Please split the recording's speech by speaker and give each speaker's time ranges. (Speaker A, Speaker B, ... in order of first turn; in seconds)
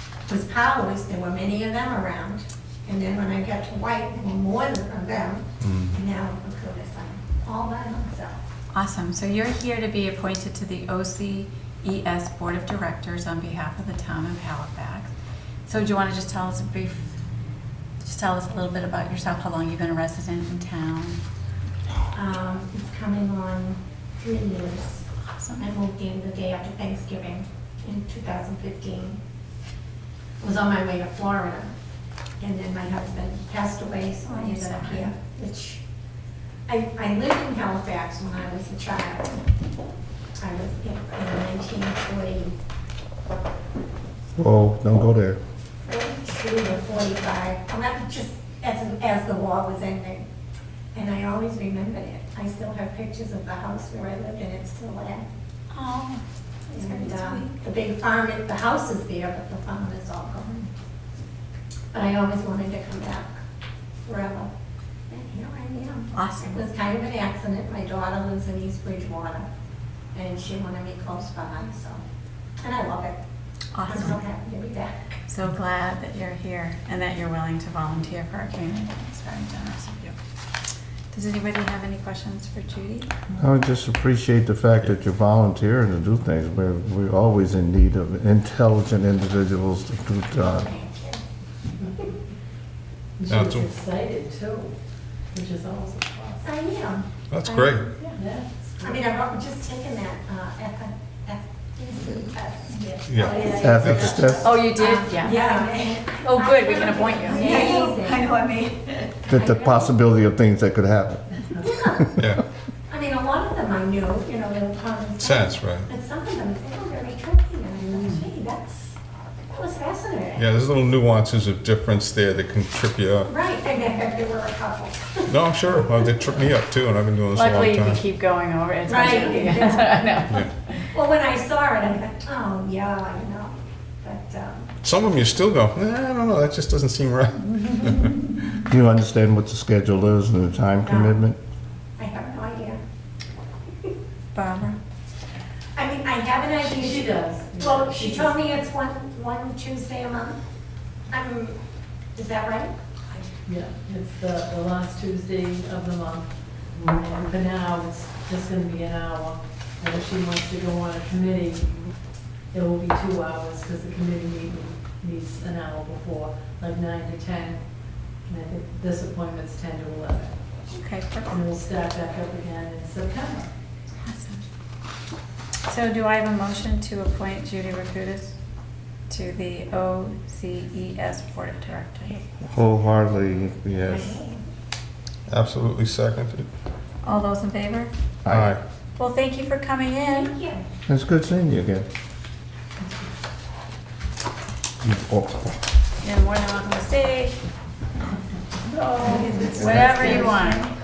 Speaker A: 0.3-8.4, 22.1-25.0, 25.6-29.2, 30.4-31.7, 32.4-35.8, 36.7-39.4, 40.4-42.5, 45.9-50.2, 50.9-55.2, 56.7-60.7, 61.9-63.4, 64.0-64.5, 65.1-69.5, 70.1-72.0, 72.6-73.2, 73.8-75.0, 90.4-91.2, 96.4-98.1, 98.8-108.3, 109.3-109.9, 111.6-112.2, 112.9-119.0, 119.5-120.4, 123.3-125.4, 128.9-130.1, 130.9-134.7, 140.8-141.2, 142.0-142.8, 145.8-150.4, 151.1-151.6, 152.1-152.7, 183.8-184.4, 190.1-190.7, 198.9-200.3
Speaker B: 5.6-5.9, 93.3-93.7, 97.3-97.9, 103.1-104.3, 112.2-112.4, 115.2-115.9, 120.3-123.3, 125.3-128.0, 134.8-138.3, 185.3-186.5, 188.3-188.6
Speaker C: 8.7-15.1, 15.7-17.1, 18.0-21.2, 25.4-25.7, 34.2-35.1, 55.7-57.5, 66.1-66.6, 73.7-74.2, 75.3-80.2, 81.1-83.1, 104.4-105.5, 106.0-107.8, 127.3-130.8, 144.3-144.8, 170.7-171.4, 174.0-174.4, 175.7-178.3, 179.1-182.2, 187.0-187.9, 189.0-190.3, 196.0-197.3, 199.5-200.6
Speaker D: 44.4-45.4, 83.3-90.7, 103.5-104.5, 109.3-111.3, 138.7-141.4, 182.5-184.1, 188.2-188.5, 190.9-191.8, 194.8-195.6, 199.6-200.3
Speaker E: 93.2-94.7, 95.3-96.5, 98.1-99.0, 103.8-104.2, 146.6-148.6, 153.4-156.3, 156.8-161.7, 162.5-167.6, 168.3-170.3, 171.3-173.5, 192.8-193.1, 199.3-200.2
Speaker F: 102.8-104.3, 105.2-105.9, 107.3-109.2, 199.0-200.7